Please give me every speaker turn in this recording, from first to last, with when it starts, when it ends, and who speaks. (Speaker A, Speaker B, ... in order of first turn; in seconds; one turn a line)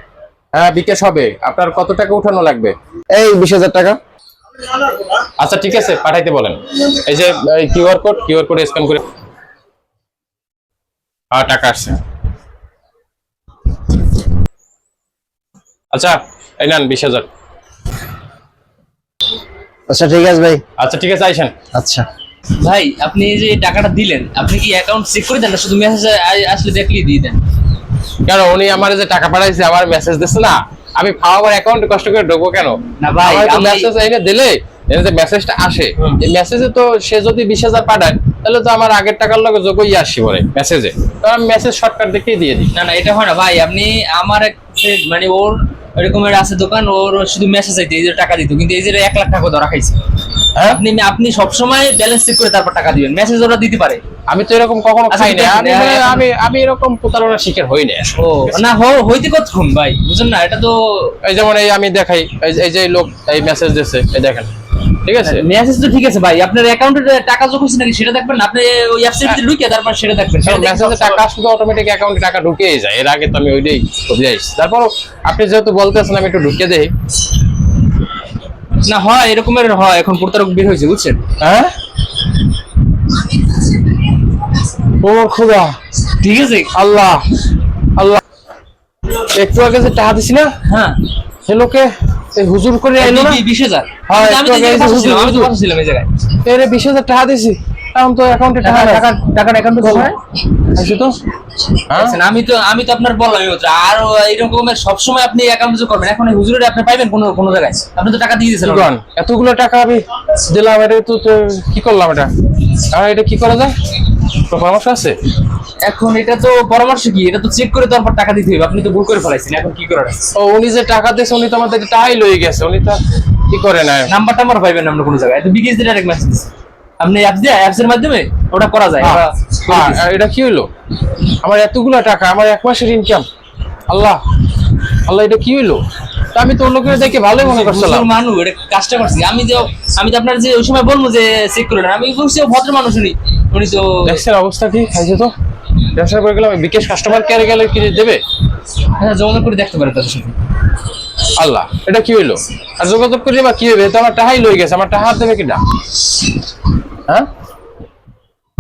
Speaker A: 0.5-2.7
Speaker B: 3.1-4.0
Speaker A: 5.4-9.0
Speaker A: 11.3-12.0
Speaker A: 15.9-17.3
Speaker B: 19.9-20.6
Speaker A: 20.8-21.6
Speaker B: 21.7-22.1
Speaker C: 22.6-27.4
Speaker A: 28.2-42.7
Speaker C: 33.0-33.9
Speaker C: 42.7-50.0
Speaker A: 50.5-50.8
Speaker C: 50.6-54.0
Speaker A: 54.3-58.6
Speaker C: 55.1-56.2
Speaker C: 58.2-61.2
Speaker A: 61.2-64.5
Speaker A: 65.0-65.5
Speaker C: 65.2-71.2
Speaker A: 70.4-76.9
Speaker C: 78.8-81.2
Speaker A: 81.4-81.7
Speaker A: 85.0-85.8
Speaker C: 86.1-86.7
Speaker A: 86.7-87.2
Speaker A: 88.0-88.2
Speaker A: 89.2-90.5
Speaker C: 90.7-91.0
Speaker A: 91.5-93.4
Speaker C: 93.0-96.1
Speaker A: 94.1-95.5
Speaker A: 96.5-99.1
Speaker C: 98.6-100.2
Speaker A: 99.8-100.1
Speaker A: 100.7-101.2
Speaker A: 101.9-102.2
Speaker C: 101.9-108.9
Speaker A: 108.6-113.7
Speaker A: 114.3-115.2
Speaker C: 115.8-120.3
Speaker A: 120.3-124.1
Speaker C: 124.1-130.1
Speaker A: 129.0-130.7
Speaker A: 131.4-133.2
Speaker A: 133.9-134.2
Speaker A: 135.1-138.1
Speaker C: 137.0-144.2
Speaker A: 144.1-145.3
Speaker A: 145.9-148.2
Speaker C: 148.9-150.4
Speaker A: 151.3-155.6